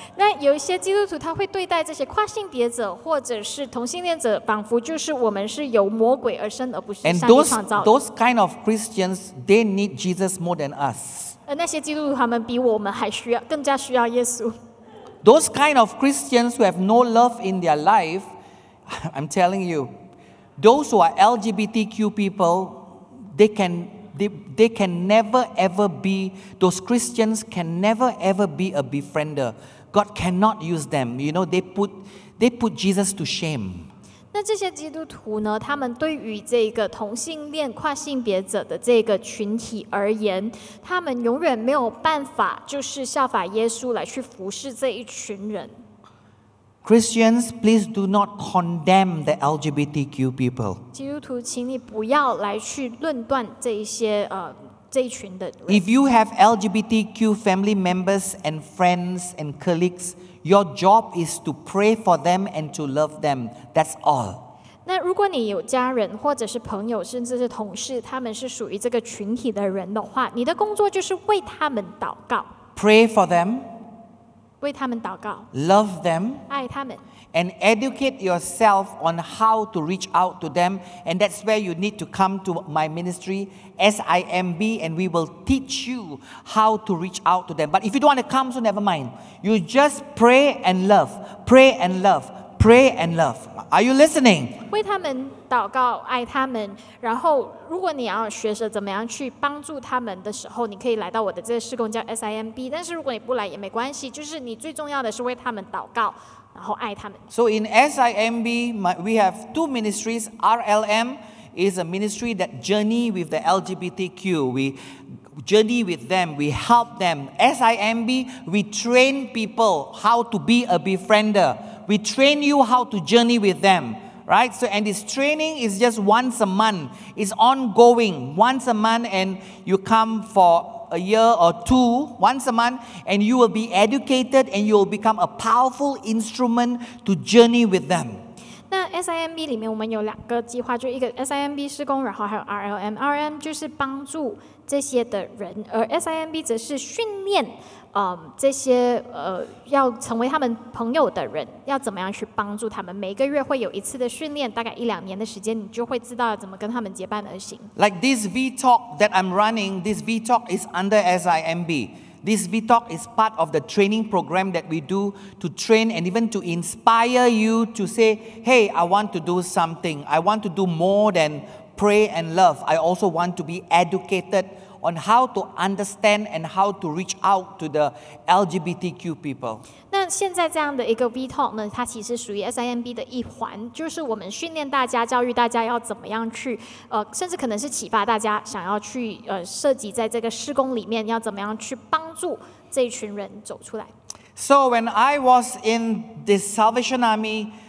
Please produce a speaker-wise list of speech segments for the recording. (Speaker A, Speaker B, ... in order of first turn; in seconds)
Speaker A: 0.2-7.9, 11.5-14.6, 34.3-45.8, 50.9-55.9, 64.8-72.5, 74.6-75.5, 76.5-77.0, 94.7-107.2, 138.7-157.7, 179.9-193.9
Speaker B: 7.0-11.4, 15.2-18.3, 18.9-19.9, 20.6-33.9, 46.8-50.8, 55.7-64.5, 72.8-73.7, 75.5-76.5, 77.3-94.6, 107.3-114.8, 115.3-138.2, 157.8-179.6, 194.4-197.5